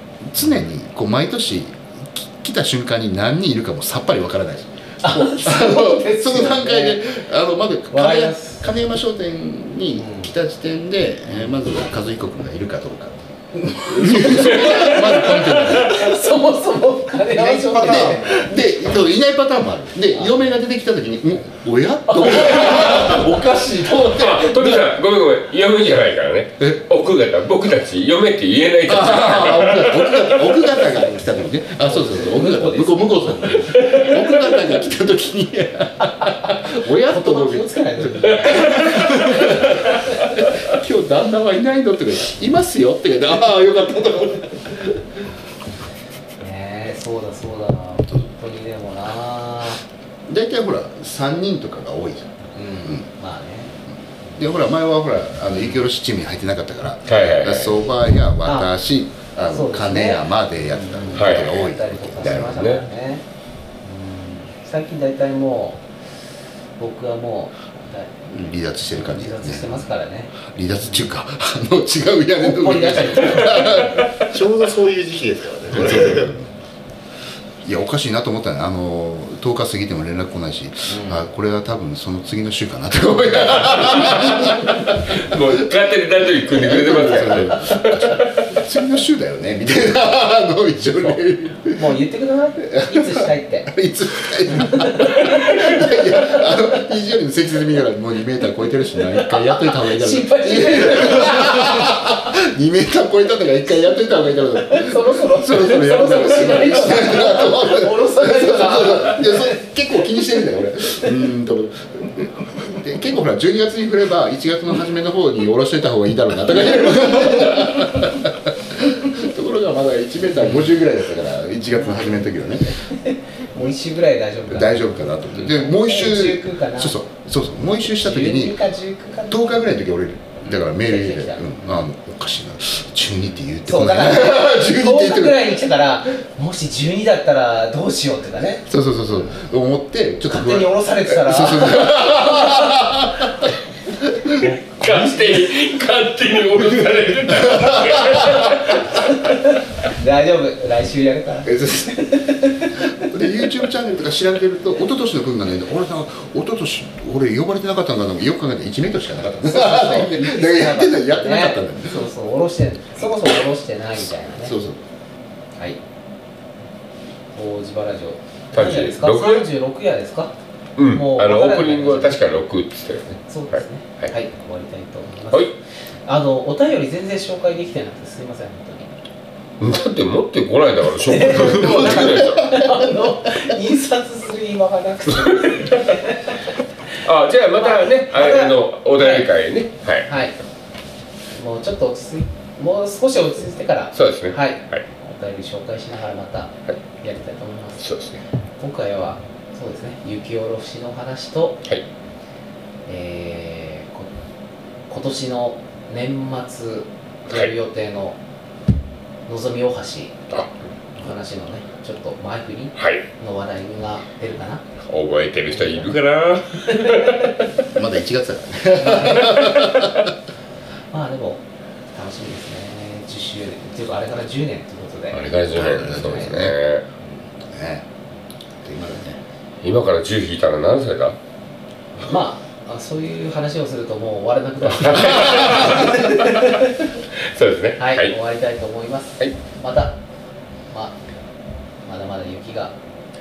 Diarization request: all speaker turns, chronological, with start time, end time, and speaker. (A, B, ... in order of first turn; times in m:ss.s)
0:00.2-0:16.0 A
0:05.0-0:07.0 B
0:07.9-0:08.7 B
0:10.0-0:10.3 B
0:11.3-0:11.5 B
0:13.6-0:18.5 B
0:14.4-0:15.2 C
0:17.3-0:24.9 A
0:20.1-0:20.5 B
0:22.1-0:23.3 B
0:24.1-0:30.5 C
0:28.8-0:45.0 A
0:31.8-0:34.0 B
0:33.7-0:34.6 C
0:37.0-0:40.0 B
0:38.5-0:38.9 C
0:46.4-0:49.8 B
0:50.3-0:52.3 A
0:52.5-0:53.7 B
0:54.4-1:02.6 A
0:57.1-0:57.8 C
0:58.4-0:58.7 B
0:59.5-1:03.2 B
1:01.1-1:01.6 C
1:02.2-1:02.8 C
1:03.8-1:05.8 B
1:06.8-1:08.2 B
1:08.3-1:09.8 A
1:09.0-1:11.1 B
1:10.4-1:14.1 A
1:12.4-1:14.0 B
1:14.3-1:16.3 D
1:15.7-1:16.5 A
1:17.6-1:25.1 A
1:20.9-1:21.2 B
1:24.1-1:28.3 C
1:26.5-1:31.8 A
1:31.7-1:33.7 B
1:32.6-2:02.7 A
1:34.5-1:36.8 B
1:39.1-1:42.1 B
1:44.6-1:49.6 B
2:01.8-2:02.1 B
2:02.7-2:07.0 B
2:04.5-2:08.6 A
2:08.0-2:09.7 B
2:09.3-2:15.6 A
2:10.4-2:11.8 B
2:13.6-2:18.6 B
2:18.7-2:23.5 A
2:20.3-2:22.8 B
2:24.0-2:24.5 A
2:24.4-2:28.9 C
2:24.4-2:25.4 B
2:27.7-2:28.2 A
2:28.8-2:33.3 B
2:31.4-2:32.1 A
2:32.8-2:42.1 A
2:39.4-2:44.5 B
2:44.4-2:44.8 A
2:47.3-2:50.3 B
2:48.5-2:49.4 C
2:50.8-2:54.1 C
2:50.9-2:52.3 B
2:53.3-2:55.5 B
2:56.0-2:58.9 B
2:59.6-3:02.5 C
3:01.0-3:06.4 B
3:01.5-3:02.7 A
3:05.4-3:06.0 C
3:07.0-3:10.1 C
3:07.6-3:09.3 B
3:10.0-3:10.3 B
3:11.3-3:17.9 B
3:13.9-3:14.8 C
3:17.8-3:18.2 C
3:18.6-3:21.6 B
3:22.8-3:24.1 B
3:24.9-3:28.2 B
3:29.3-3:30.1 B
3:30.9-3:34.6 B
3:32.8-3:33.0 C
3:34.9-3:37.5 C
3:35.5-3:35.9 B
3:37.7-3:40.1 A
3:38.8-3:39.6 B
3:40.9-3:41.4 B
3:41.9-3:46.3 B
3:45.1-3:46.8 C
3:45.5-3:46.6 A
3:47.4-3:47.8 A
3:48.6-3:49.2 A
3:49.6-3:51.2 C
3:51.9-3:56.7 B
3:54.7-3:56.6 C
3:57.3-3:58.1 C
3:57.8-4:00.0 B
4:00.7-4:01.0 B
4:01.8-4:02.7 B